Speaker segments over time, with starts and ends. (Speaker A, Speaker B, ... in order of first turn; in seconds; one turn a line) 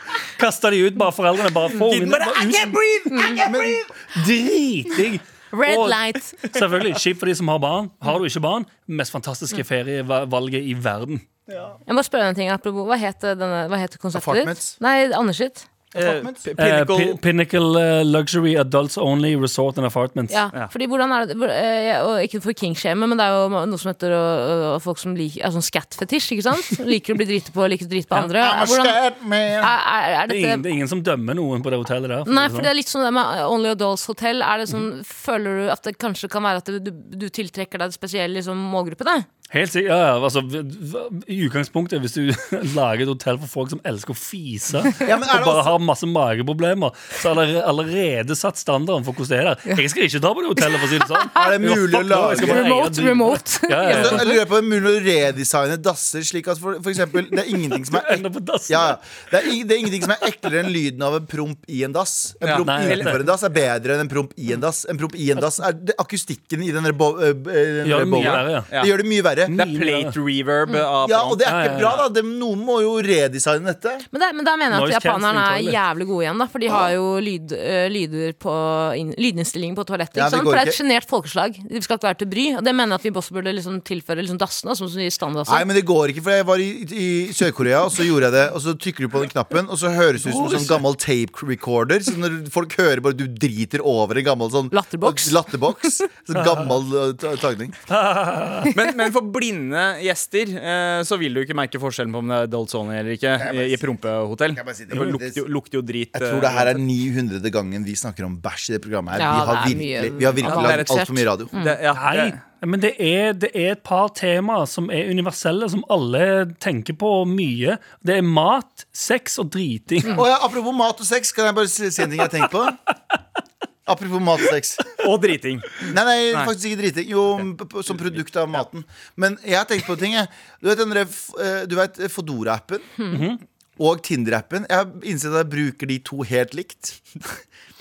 Speaker A: 0.4-11.3
Speaker B: 1.7-3.7
Speaker C: 3.1-3.4
Speaker D: 3.4-3.9
Speaker C: 5.5-6.4
Speaker B: 6.4-7.0
Speaker C: 11.9-15.7
Speaker D: 14.1-14.8
Speaker D: 15.9-16.4
Speaker B: 15.9-17.2
Speaker A: 16.6-20.4
Speaker C: 20.3-29.0
Speaker D: 28.4-29.7
Speaker C: 29.6-30.6
Speaker A: 30.3-32.7
Speaker C: 32.3-39.3
Speaker A: 39.5-54.3
Speaker D: 45.0-45.7
Speaker C: 50.7-51.6
Speaker D: 51.3-52.7
Speaker B: 51.7-52.0
Speaker C: 52.3-54.4
Speaker D: 53.9-69.5
Speaker A: 57.7-59.0
Speaker B: 62.4-63.2
Speaker A: 62.6-63.2
Speaker A: 67.8-68.7
Speaker B: 68.1-68.9
Speaker A: 69.5-70.2
Speaker B: 69.5-72.0
Speaker D: 71.0-74.1
Speaker A: 71.4-72.0
Speaker C: 74.1-85.7
Speaker A: 74.7-75.8
Speaker D: 80.2-80.8
Speaker D: 85.5-97.8
Speaker A: 90.2-90.8
Speaker C: 94.7-95.5
Speaker A: 96.3-96.7
Speaker A: 97.9-98.8
Speaker B: 98.7-106.8
Speaker D: 103.4-103.8
Speaker D: 104.5-105.5
Speaker D: 106.1-111.5
Speaker C: 109.2-111.8
Speaker B: 110.4-112.4
Speaker A: 111.9-120.2
Speaker D: 120.1-122.8
Speaker D: 123.9-125.0
Speaker B: 124.9-126.5
Speaker D: 125.8-132.9
Speaker A: 133.1-133.4
Speaker D: 133.8-137.0